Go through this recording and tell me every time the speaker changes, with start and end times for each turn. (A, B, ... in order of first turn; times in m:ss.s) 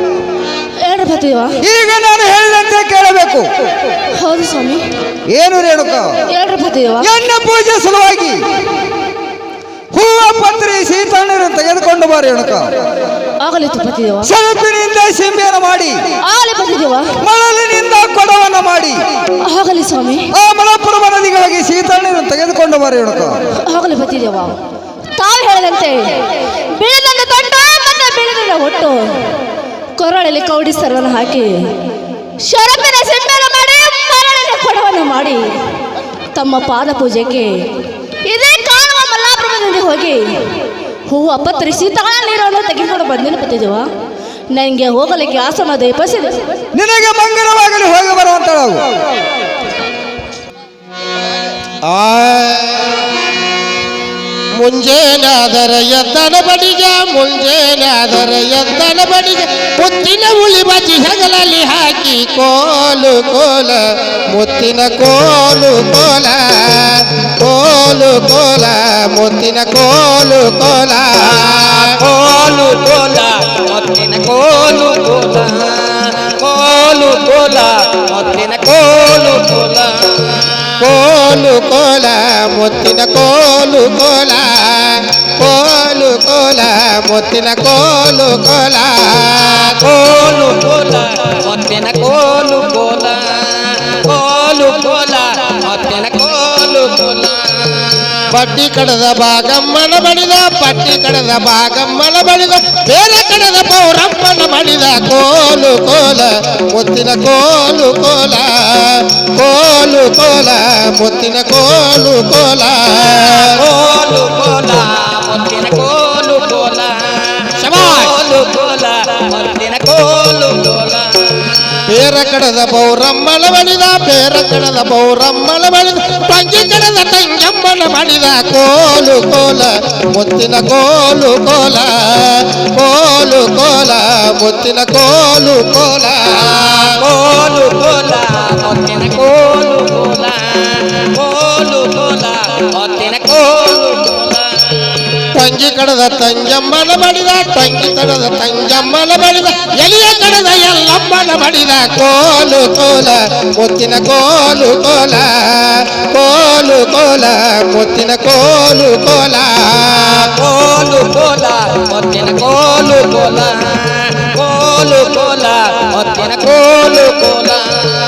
0:00.8-0:01.6 A
0:01.6-0:03.5 B
0:04.1-0:04.8 A
0:05.3-0:06.2 B
0:06.3-0:07.1 A
0:07.0-0:08.4 B
0:09.9-0:12.8 B
0:13.4-0:14.3 A
0:14.2-0:16.1 B
0:16.2-0:17.1 A
0:17.2-0:19.0 B
0:19.4-0:20.3 A
0:20.3-0:23.4 B
0:23.6-0:24.6 A
0:25.2-0:29.2 A
0:30.0-0:31.9 A
0:32.4-0:35.5 A
0:36.3-0:37.7 A
0:38.2-0:43.9 A
0:44.5-0:46.5 A
0:46.7-0:48.9 B
0:51.8-0:53.0 C
0:54.6-1:11.9 C
1:11.2-1:20.5 D
1:20.8-1:29.8 C
1:29.7-1:38.2 D
1:38.3-1:53.6 C
1:53.2-2:01.1 D
1:57.6-1:58.2 C
2:01.9-2:16.9 C
2:16.4-2:24.4 D
2:25.3-2:40.2 C
2:39.9-2:47.6 D